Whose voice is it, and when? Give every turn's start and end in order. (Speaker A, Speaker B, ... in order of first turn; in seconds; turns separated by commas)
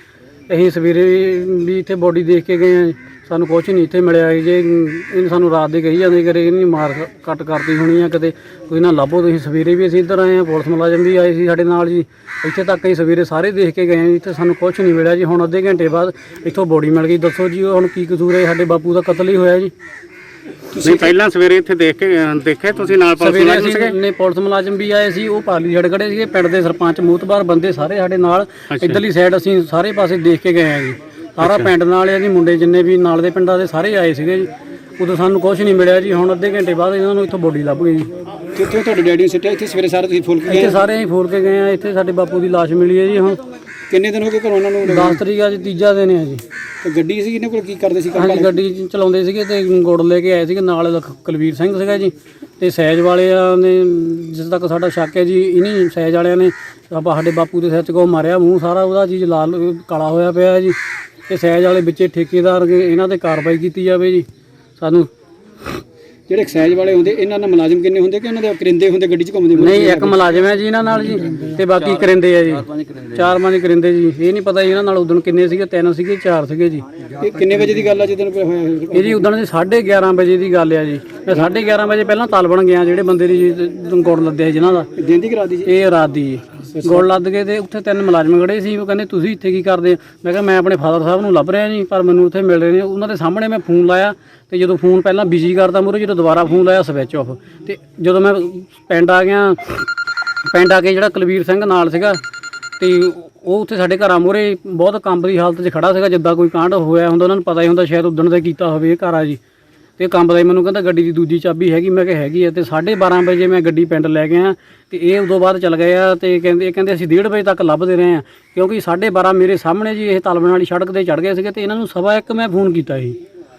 Speaker A: 0.5-19.7, Speaker B: 20.8-24.0, Speaker A: 23.2-38.1, Speaker B: 28.7-29.0, Speaker B: 31.4-31.7, Speaker C: 38.5-40.8, Speaker A: 40.5-43.4, Speaker C: 43.9-45.2, Speaker A: 44.9-46.4, Speaker C: 46.8-48.5, Speaker A: 48.1-64.3, Speaker A: 64.8-65.1, Speaker C: 66.3-70.2, Speaker A: 69.6-76.8, Speaker C: 77.2-79.3, Speaker A: 78.9-84.9, Speaker C: 85.0-85.7, Speaker A: 85.7-99.9, Speaker C: 86.7-87.1, Speaker A: 100.5-102.2, Speaker A: 102.8-109.4, Speaker A: 110.0-123.2